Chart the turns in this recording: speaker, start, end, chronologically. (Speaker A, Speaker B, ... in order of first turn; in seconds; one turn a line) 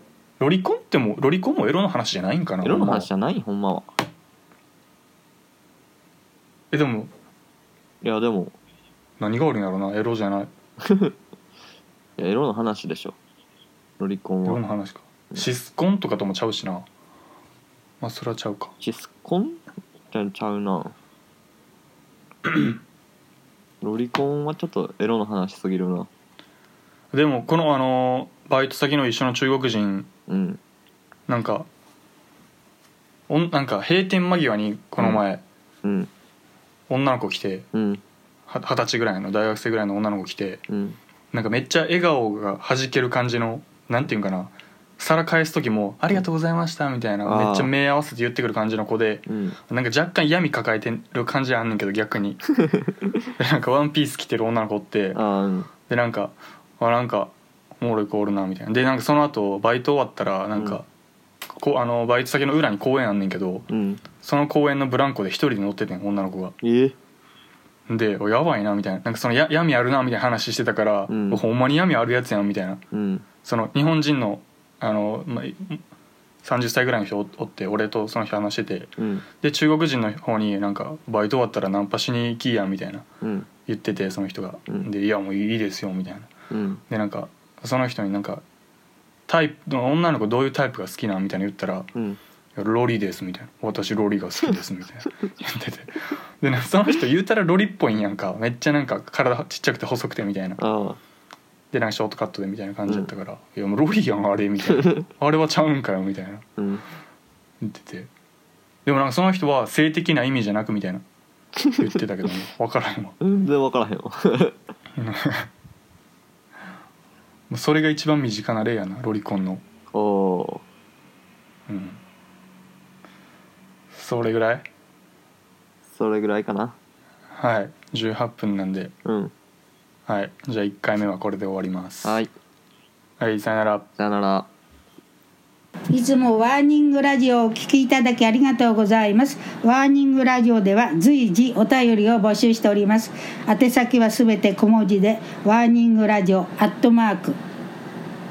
Speaker A: 0.4-3.1
Speaker B: 2.6-3.9
Speaker A: 6.7-7.1
Speaker B: 8.0-8.5
Speaker A: 9.2-10.5
Speaker B: 12.2-13.2
Speaker B: 14.0-14.6
Speaker A: 14.4-16.9
Speaker A: 18.0-18.7
Speaker B: 18.8-20.9
Speaker A: 22.5-22.8
Speaker B: 23.8-26.1
Speaker A: 27.1-30.1
Speaker B: 30.3-30.6
Speaker A: 31.3-31.7
Speaker A: 33.3-35.4
Speaker B: 35.0-35.2
Speaker B: 35.8-36.1
Speaker A: 36.9-37.7
Speaker B: 37.7-38.0
Speaker A: 38.5-40.6
Speaker B: 40.7-41.0
Speaker A: 41.3-52.4
Speaker B: 47.2-47.7
Speaker B: 49.3-49.6
Speaker A: 53.4-55.2
Speaker B: 55.1-55.7
Speaker A: 55.9-60.9
Speaker A: 61.6-63.7
Speaker B: 63.7-64.0
Speaker A: 64.2-66.5
Speaker B: 66.6-67.0
Speaker A: 67.9-72.8
Speaker B: 71.1-71.4
Speaker B: 72.9-73.2
Speaker A: 73.4-75.8
Speaker A: 76.4-83.0
Speaker B: 79.0-79.2
Speaker B: 83.2-83.5
Speaker A: 83.7-86.3
Speaker B: 86.5-86.8
Speaker A: 86.9-88.4
Speaker A: 89.3-91.9
Speaker A: 92.5-100.6
Speaker B: 100.6-101.0
Speaker A: 101.7-106.4
Speaker B: 106.6-106.8
Speaker A: 107.6-108.1
Speaker A: 108.8-111.0
Speaker A: 111.8-113.2
Speaker B: 113.2-114.5
Speaker A: 115.0-115.5
Speaker A: 117.5-119.6
Speaker B: 119.9-120.6
Speaker A: 121.7-122.0
Speaker A: 123.9-124.7
Speaker B: 125.9-126.8
Speaker A: 127.3-128.9
Speaker B: 129.0-129.3
Speaker A: 130.1-132.2
Speaker B: 132.0-132.3
Speaker A: 133.2-133.9
Speaker B: 134.0-134.5
Speaker C: 135.9-147.3